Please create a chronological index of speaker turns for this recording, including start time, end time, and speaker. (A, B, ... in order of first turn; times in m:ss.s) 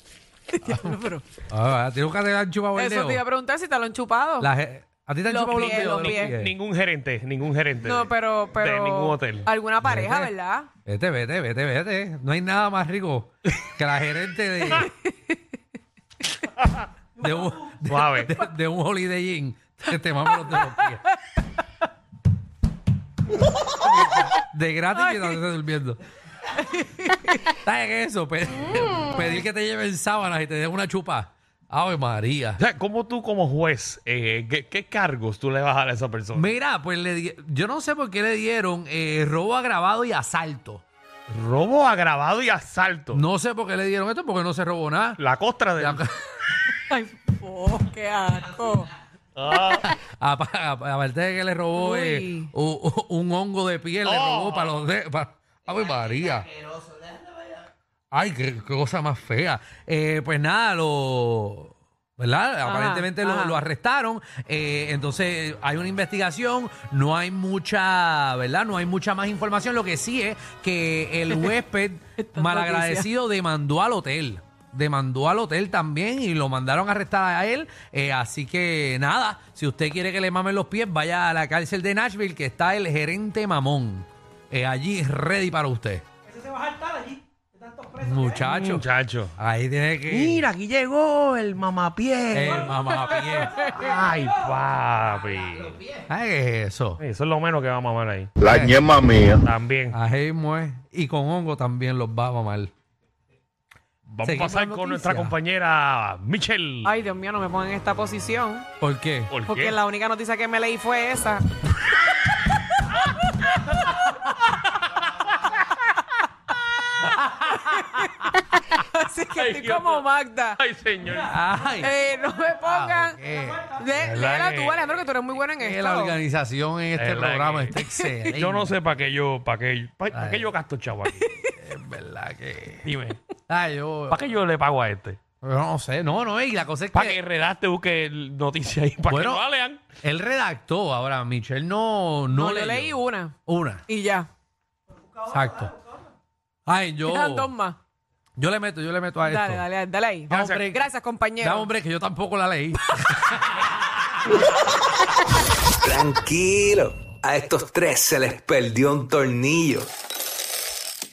0:00.6-0:01.3 A
0:01.5-0:03.2 B
0:02.8-0:04.5 A
0:04.4-0:06.5 B
0:05.3-0:06.3 A
0:05.6-0:09.5 C
0:07.8-0:10.7 A
0:09.8-0:10.3 B
0:10.9-0:14.9 B
0:14.9-0:15.1 A
0:17.2-0:21.0 B
0:17.9-0:18.3 C
0:20.5-0:21.0 A
0:24.1-0:26.0 B
0:25.0-0:25.4 A
0:26.6-0:27.4 A
0:27.4-0:32.6 B
0:32.6-0:36.5 C
0:36.3-0:40.8 B
0:41.3-0:43.2 C
0:43.1-0:45.2 B
0:45.2-0:46.0 C
0:45.8-0:46.1 B
0:46.7-0:48.9 A
0:49.4-0:49.9 C
0:49.8-0:56.5 B
0:51.8-0:52.5 A
0:54.0-0:54.8 C
0:58.1-1:26.1 B
1:02.6-1:03.6 A
1:12.2-1:13.1 A
1:27.8-1:28.9 B
1:28.4-1:29.4 C
1:29.4-1:30.5 B
1:30.1-1:32.8 C
1:32.3-1:33.7 B
1:33.7-1:36.0 C
1:36.0-1:37.0 B
1:37.0-1:38.3 C
1:38.4-1:39.3 B
1:39.4-1:40.0 C
1:39.9-1:42.7 B
1:44.1-1:46.9 C
1:44.2-1:45.4 B
1:46.8-1:48.7 A
1:48.8-1:49.3 B
1:49.3-1:49.8 C
1:49.5-1:51.4 A
1:57.4-2:00.6 A
1:59.4-2:01.4 C
2:01.3-2:01.9 B
2:01.8-2:06.2 A
2:02.6-2:03.8 B
2:04.0-2:04.8 C
2:05.6-2:08.8 B
2:07.0-2:07.8 C
2:07.8-2:08.1 A
2:08.4-2:11.3 C
2:10.1-2:10.5 B
2:11.6-2:12.9 B
2:12.8-2:13.2 C
2:13.5-2:14.2 B
2:14.1-2:15.2 C
2:15.4-2:17.2 B
2:16.9-2:19.8 C
2:19.1-2:19.4 B
2:20.0-2:23.8 B
2:22.3-2:23.4 A
2:23.9-2:24.3 A
2:25.2-2:25.8 B
2:26.7-2:27.5 B
2:27.1-2:27.8 A
2:28.4-2:29.7 B
2:29.2-2:31.7 A
2:30.3-2:30.8 B
2:31.4-2:33.7 B
2:35.8-2:39.9 D